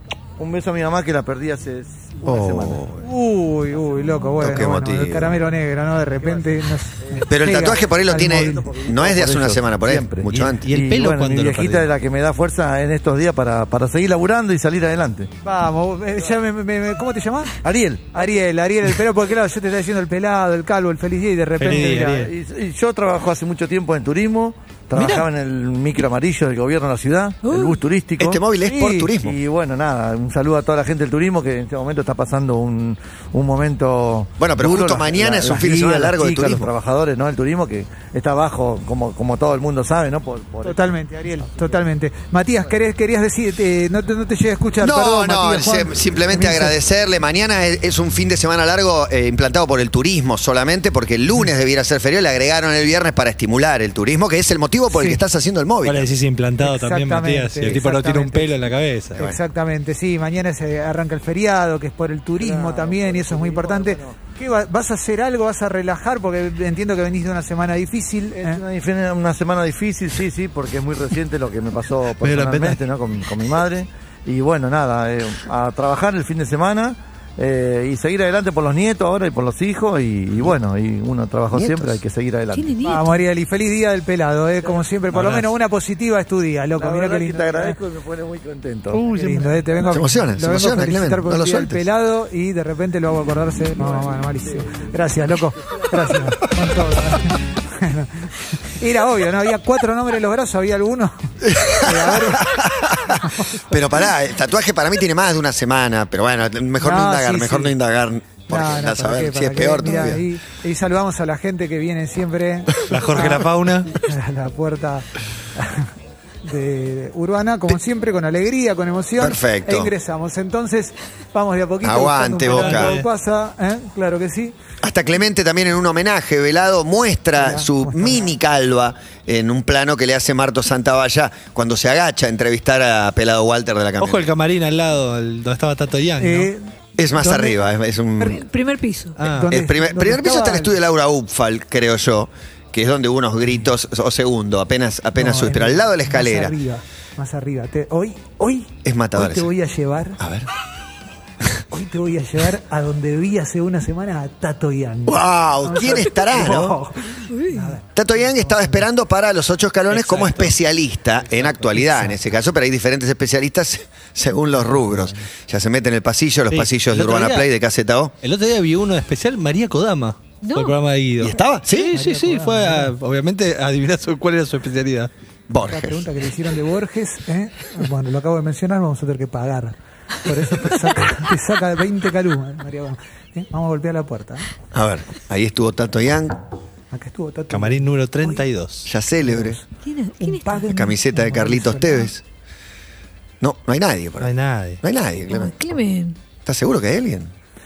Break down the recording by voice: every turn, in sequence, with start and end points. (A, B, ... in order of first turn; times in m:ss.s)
0:00.4-0:03.0 A
0:02.3-0:02.8 B
0:03.0-0:08.7 C
0:04.4-0:05.4 B
0:07.0-0:15.3 A
0:07.3-0:10.6 B
0:10.3-0:11.9 D
0:15.4-0:17.6 C
0:17.6-0:18.1 A
0:18.1-0:22.3 C
0:21.6-0:22.3 D
0:21.8-0:28.4 A
0:24.9-0:25.3 D
0:27.4-0:27.8 E
0:28.2-0:29.4 B
0:28.6-0:29.1 C
0:29.1-0:40.9 A
0:34.4-0:36.7 B
0:40.6-0:46.8 C
0:44.8-0:56.1 B
0:54.9-0:55.2 C
0:55.8-0:59.2 D
0:56.6-0:58.5 C
0:59.2-1:08.6 C
1:02.4-1:04.2 A
1:08.4-1:22.8 A
1:12.2-1:12.8 D
1:21.5-1:21.9 B
1:22.5-1:23.1 E
1:22.8-1:27.8 C
1:25.1-1:25.5 D
1:26.8-1:29.5 A
1:29.0-1:43.7 C
1:29.8-1:31.8 B
1:41.4-1:50.2 B
1:46.8-1:47.7 C
1:48.5-1:55.9 C
1:52.9-1:53.9 D
1:56.4-2:04.5 C
1:59.2-1:59.9 B
2:01.8-2:03.0 B
2:02.5-2:03.1 D
2:04.8-2:14.3 B
2:07.4-2:08.3 C
2:14.0-2:16.5 D
2:16.2-2:16.6 C
2:17.0-2:18.4 B
2:17.2-2:17.6 C
2:18.3-2:19.2 E
2:19.2-2:19.5 D
2:19.3-2:20.8 C
2:19.4-2:26.6 B
2:25.2-2:30.2 C
2:28.8-2:29.5 B
2:30.2-2:30.5 B
2:31.7-2:38.8 C
2:35.1-2:36.8 B
2:37.3-2:37.8 E
2:38.0-2:48.1 B
2:39.9-2:40.6 D
2:46.5-2:47.5 D
2:48.2-2:55.1 D
2:50.4-2:50.8 E
2:51.2-2:51.9 B
2:51.9-2:52.9 C
2:55.5-2:56.0 B
2:55.7-3:04.5 C
3:04.7-3:06.4 B
3:06.9-3:08.4 C
3:07.5-3:08.9 D
3:08.9-3:09.6 B
3:09.2-3:09.7 C
3:09.8-3:10.7 E
3:10.2-3:12.1 C
3:10.7-3:12.2 B
3:13.4-3:15.6 B
3:14.2-3:14.8 D
3:15.3-3:16.2 E
3:16.4-3:17.3 B